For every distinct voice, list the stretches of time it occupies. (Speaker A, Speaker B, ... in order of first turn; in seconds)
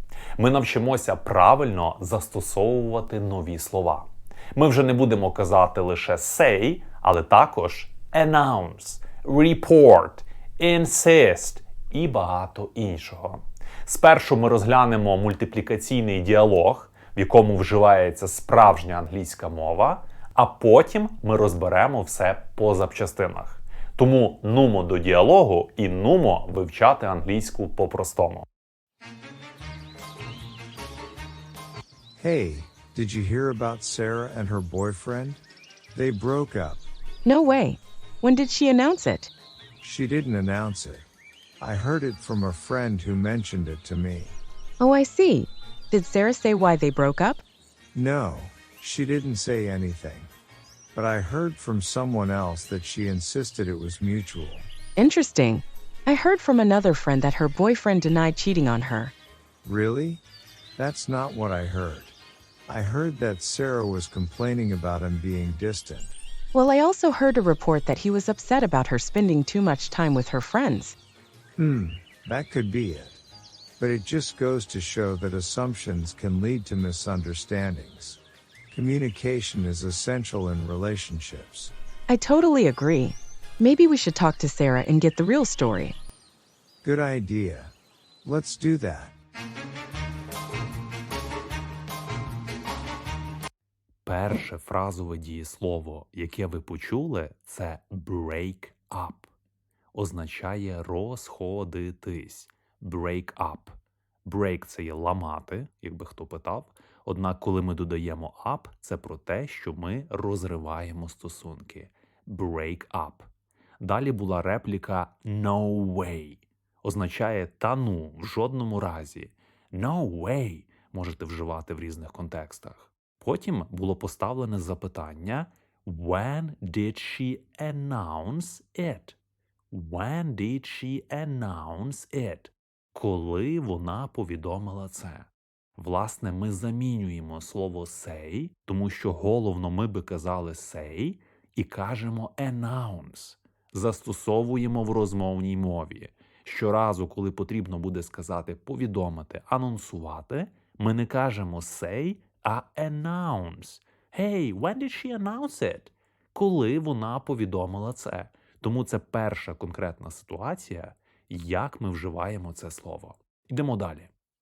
Speaker A: 0.4-28.5, 94.0-99.3, 99.9-113.3, 113.8-129.2, 129.7-164.1
Speaker B: 32.2-35.4, 35.9-36.8, 39.8-41.1, 41.6-44.4, 47.9-50.3, 50.9-54.7, 59.6-60.2, 60.8-62.1, 62.7-66.1, 71.6-73.2, 73.8-78.2, 78.7-81.7, 86.8-89.1
Speaker C: 37.2-39.3, 44.8-47.4, 55.0-59.1, 66.5-71.0, 82.1-86.0